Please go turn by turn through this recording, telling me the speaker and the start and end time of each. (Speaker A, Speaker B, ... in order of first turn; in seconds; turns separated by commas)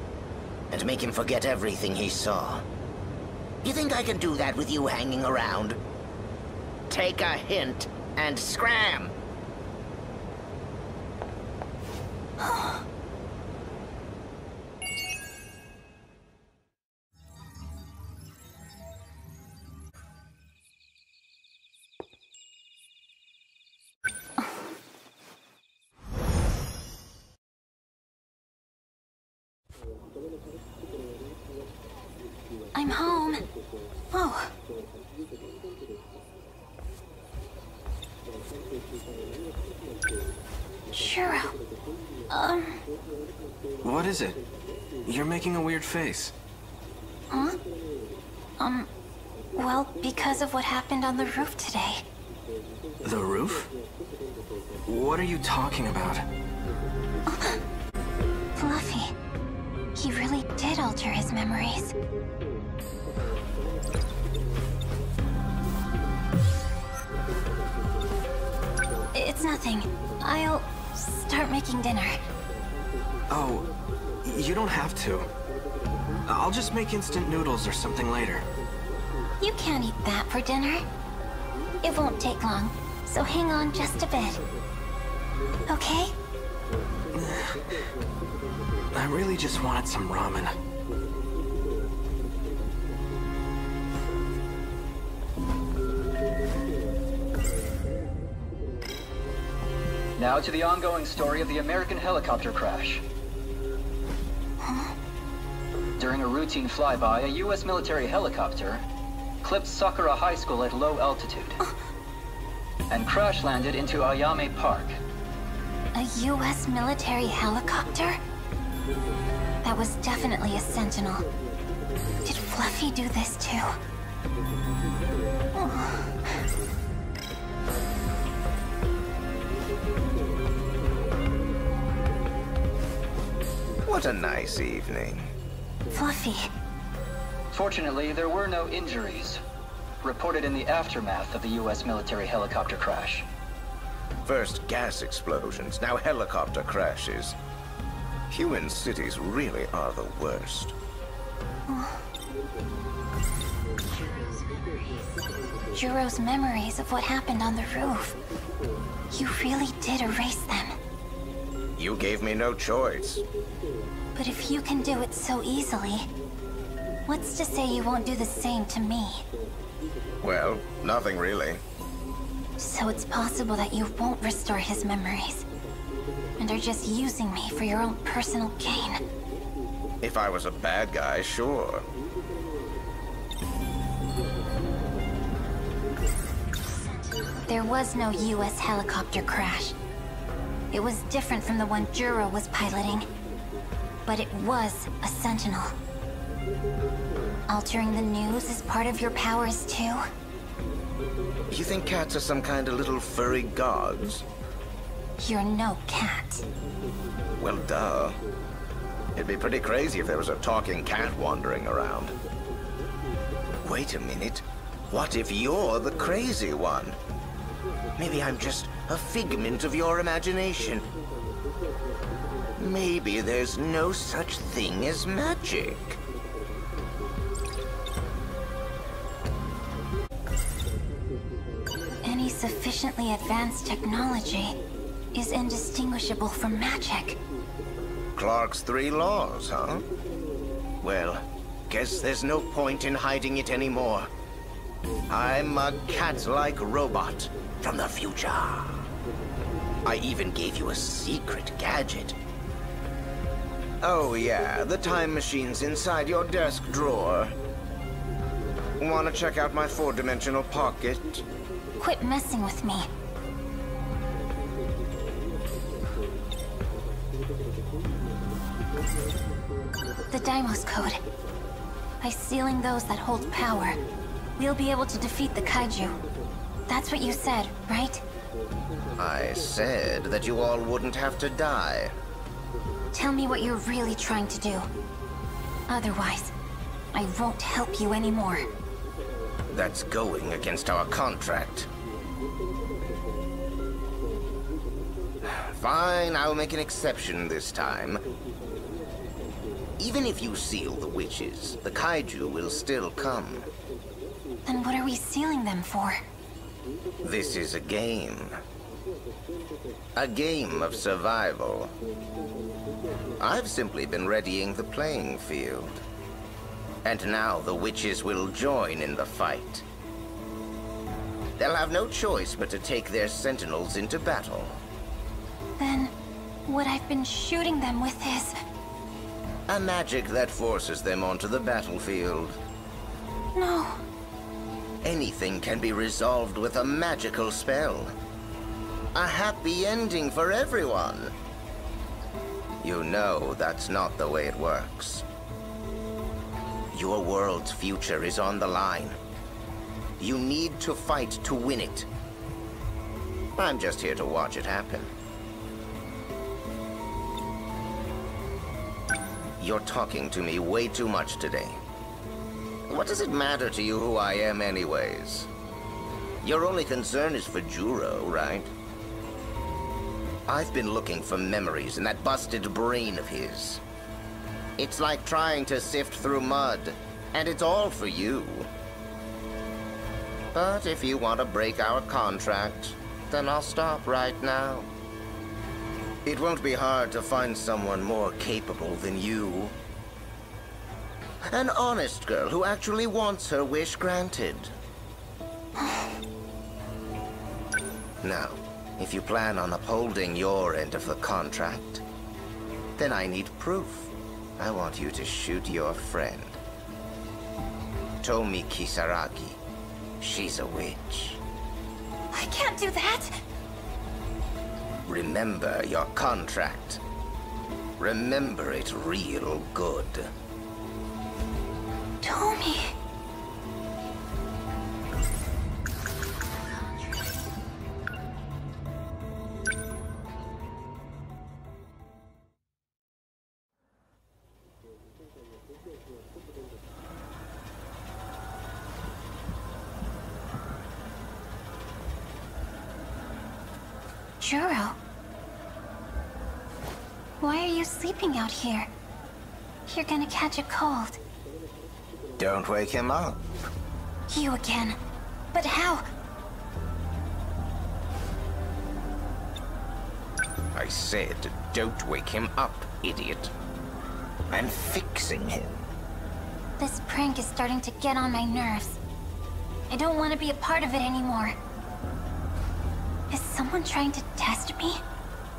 Speaker A: 0.7-2.6, Speaker A: 3.6-5.8, Speaker A: 6.9-9.1, Speaker B: 12.4-12.8, Speaker B: 32.7-33.4, Speaker B: 34.1-34.5, Speaker B: 40.9-41.5, Speaker B: 42.3-42.8, Speaker C: 43.8-44.4, Speaker C: 45.0-46.3, Speaker B: 47.3-47.6, Speaker B: 48.6-48.9, Speaker B: 49.5-52.0, Speaker C: 53.0-53.7, Speaker C: 54.9-56.2, Speaker B: 57.3-57.6, Speaker B: 58.5-59.1, Speaker B: 59.9-61.9, Speaker B: 69.1-72.2, Speaker C: 73.3-73.7, Speaker C: 74.2-75.3, Speaker C: 76.3-78.5, Speaker B: 79.4-80.8, Speaker B: 81.8-84.4, Speaker B: 85.7-86.1, Speaker C: 87.1-87.7, Speaker C: 88.9-90.5, Speaker D: 100.2-103.0, Speaker B: 104.6-104.9, Speaker D: 106.0-108.8, Speaker D: 109.4-111.6, Speaker D: 112.9-115.0, Speaker B: 115.9-118.2, Speaker B: 119.6-121.3, Speaker B: 122.2-123.7, Speaker B: 125.5-126.1, Speaker A: 133.8-135.3, Speaker B: 135.9-136.5, Speaker D: 137.5-139.4, Speaker D: 140.0-143.2, Speaker A: 144.2-147.3, Speaker A: 148.3-150.7, Speaker B: 151.7-152.0, Speaker B: 154.0-155.0, Speaker B: 155.7-158.2, Speaker B: 159.1-160.8, Speaker A: 161.8-163.2, Speaker B: 164.1-166.1, Speaker B: 167.1-169.2, Speaker A: 170.2-171.6, Speaker B: 172.6-175.4, Speaker B: 176.4-179.0, Speaker A: 180.0-181.8, Speaker B: 186.7-189.8, Speaker B: 190.7-193.1, Speaker B: 194.1-195.7, Speaker B: 197.5-200.0, Speaker A: 201.5-204.2, Speaker B: 205.2-206.5, Speaker A: 207.4-208.2, Speaker A: 209.1-212.1, Speaker A: 213.6-217.0, Speaker A: 218.0-220.9, Speaker A: 222.6-226.0, Speaker B: 232.0-234.6, Speaker B: 235.1-237.2, Speaker A: 238.2-239.8, Speaker A: 240.8-244.1, Speaker A: 245.1-248.8, Speaker A: 249.8-252.2, Speaker A: 253.8-257.3, Speaker A: 258.8-261.2, Speaker B: 261.8-262.9, Speaker B: 270.1-271.0, Speaker B: 272.0-273.8, Speaker B: 274.4-276.0, Speaker B: 276.7-278.0, Speaker A: 279.0-281.9, Speaker B: 282.9-284.7, Speaker B: 285.7-286.3, Speaker B: 286.9-288.5, Speaker A: 289.5-291.7, Speaker A: 295.2-298.0, Speaker A: 299.8-303.5, Speaker B: 304.4-306.0, Speaker A: 307.0-308.4, Speaker A: 309.9-311.7, Speaker A: 313.2-315.8, Speaker A: 316.8-319.6, Speaker A: 321.4-324.6, Speaker B: 325.6-325.9, Speaker B: 326.5-328.4, Speaker A: 329.5-332.4, Speaker B: 333.3-333.8, Speaker A: 334.8-337.9, Speaker A: 338.9-341.1, Speaker A: 342.6-345.0, Speaker A: 346.7-349.0, Speaker A: 350.0-351.9, Speaker A: 353.4-354.9, Speaker A: 359.4-361.6, Speaker A: 362.7-365.3, Speaker A: 366.2-368.5, Speaker A: 370.3-373.6, Speaker A: 374.6-378.5, Speaker A: 380.3-384.7, Speaker A: 386.0-389.6, Speaker A: 391.3-394.5, Speaker A: 398.0-401.8, Speaker A: 402.8-406.4, Speaker A: 408.0-409.4, Speaker A: 410.0-411.2, Speaker B: 412.1-413.2, Speaker A: 414.9-416.8, Speaker A: 417.8-420.1, Speaker B: 422.0-422.7, Speaker B: 444.2-444.8, Speaker B: 447.2-448.7, Speaker B: 449.7-451.0, Speaker A: 452.2-453.2, Speaker B: 454.1-454.8, Speaker B: 455.3-455.9, Speaker A: 460.5-463.3, Speaker A: 464.3-465.6, Speaker B: 466.6-468.8, Speaker B: 469.7-471.4, Speaker B: 473.1-474.8